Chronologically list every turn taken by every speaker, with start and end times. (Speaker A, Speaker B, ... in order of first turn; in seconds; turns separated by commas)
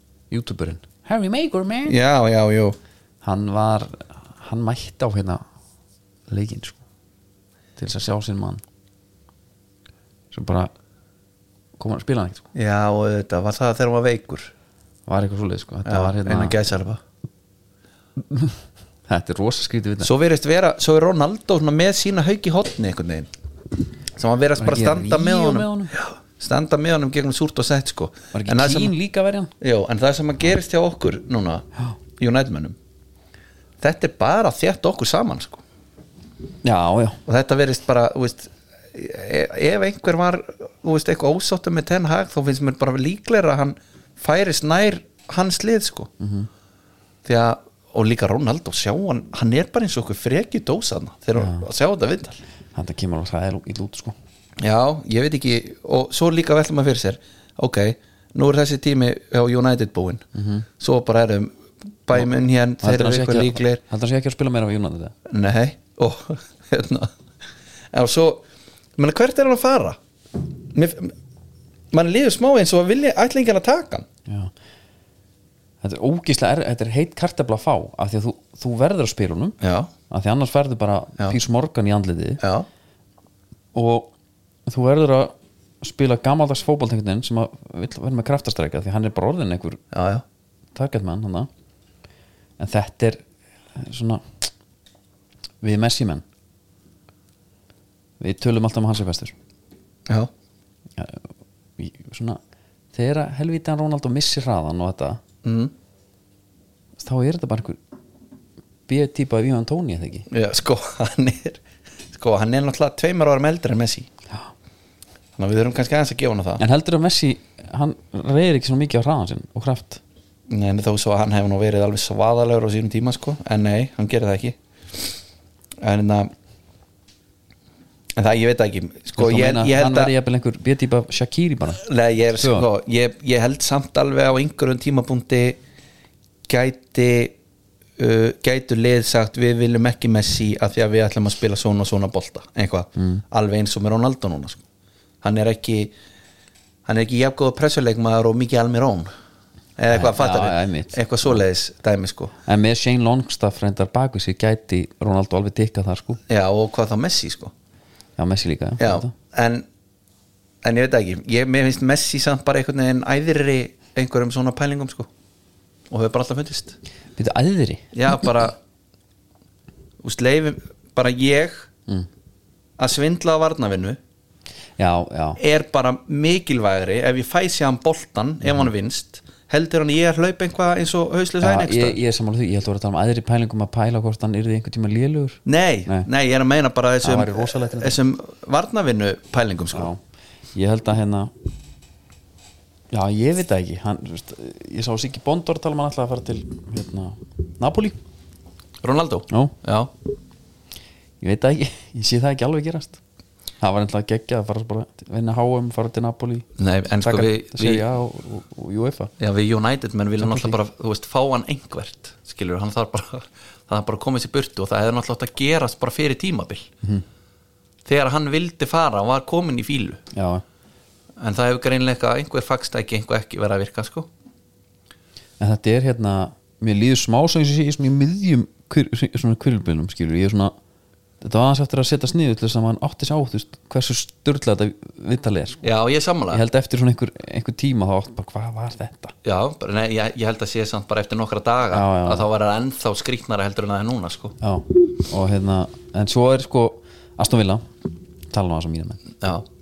Speaker A: 0.3-2.0, Speaker B: 1.9-2.8, Speaker A: 3.2-5.4, Speaker A: 6.3-6.8, Speaker A: 7.8-8.6, Speaker A: 10.3-10.7, Speaker A: 11.8-12.4, Speaker B: 12.6-14.5, Speaker A: 15.1-16.6, Speaker B: 15.8-17.0, Speaker A: 18.2-20.1, Speaker B: 20.0-23.3, Speaker B: 24.2-28.9, Speaker A: 24.6-26.0, Speaker A: 28.3-29.5, Speaker B: 29.6-31.7, Speaker B: 32.2-32.8, Speaker B: 33.8-35.6, Speaker A: 36.6-37.2, Speaker B: 37.3-46.1, Speaker A: 46.2-46.5, Speaker B: 47.2-52.4, Speaker A: 51.4-51.7, Speaker A: 52.7-54.2, Speaker B: 54.6-60.3, Speaker A: 60.3-60.6, Speaker B: 60.8-61.5, Speaker B: 62.1-63.8, Speaker A: 62.8-65.1, Speaker B: 65.3-67.1, Speaker B: 67.9-68.4, Speaker B: 69.0-70.0, Speaker B: 70.7-71.1, Speaker B: 71.9-74.1, Speaker A: 74.3-74.5, Speaker A: 75.8-79.6, Speaker B: 79.6-79.9, Speaker A: 80.1-82.4, Speaker B: 82.4-82.7, Speaker A: 83.7-84.1, Speaker A: 84.7-89.8, Speaker B: 89.9-90.2, Speaker A: 90.7-91.5, Speaker A: 92.6-93.2, Speaker A: 93.7-94.5, Speaker A: 95.6-96.2, Speaker A: 98.2-99.4, Speaker A: 101.0-102.4, Speaker A: 102.9-105.2, Speaker B: 105.4-105.7, Speaker A: 107.0-107.8, Speaker A: 108.9-110.3, Speaker B: 110.3-111.6, Speaker B: 112.1-114.1, Speaker B: 115.4-116.6, Speaker A: 116.6-120.0, Speaker B: 120.5-125.1, Speaker B: 125.8-126.3, Speaker B: 128.2-130.1, Speaker A: 129.2-131.8, Speaker B: 131.8-135.6, Speaker A: 132.4-132.7, Speaker B: 136.5-137.4, Speaker B: 138.0-144.6, Speaker A: 143.0-143.2, Speaker B: 145.2-145.9, Speaker B: 146.9-149.1, Speaker B: 149.8-152.3, Speaker A: 149.9-151.4, Speaker A: 152.5-156.2, Speaker B: 156.3-157.5, Speaker A: 158.2-159.1, Speaker B: 158.8-159.7, Speaker B: 160.6-165.1, Speaker B: 165.9-166.8, Speaker A: 167.2-168.2, Speaker B: 167.9-168.6, Speaker B: 170.0-171.7, Speaker B: 172.8-174.0, Speaker A: 174.8-175.4, Speaker B: 175.4-182.0, Speaker A: 181.4-186.1, Speaker B: 185.4-189.9, Speaker A: 187.0-188.0, Speaker A: 189.7-190.0, Speaker A: 190.5-191.3, Speaker A: 192.9-198.0, Speaker B: 198.8-199.9, Speaker A: 199.3-199.6, Speaker A: 201.2-203.0, Speaker A: 203.6-206.5, Speaker B: 206.6-207.8, Speaker A: 207.0-209.1, Speaker B: 209.2-216.7, Speaker A: 210.2-210.6, Speaker B: 217.9-220.0, Speaker A: 220.1-220.4, Speaker B: 221.2-224.1, Speaker A: 225.4-230.6, Speaker A: 231.2-235.7, Speaker B: 235.6-236.4, Speaker A: 236.3-239.2, Speaker B: 239.2-244.4, Speaker A: 241.7-242.3, Speaker A: 244.4-247.7, Speaker A: 248.3-249.0, Speaker B: 249.2-249.5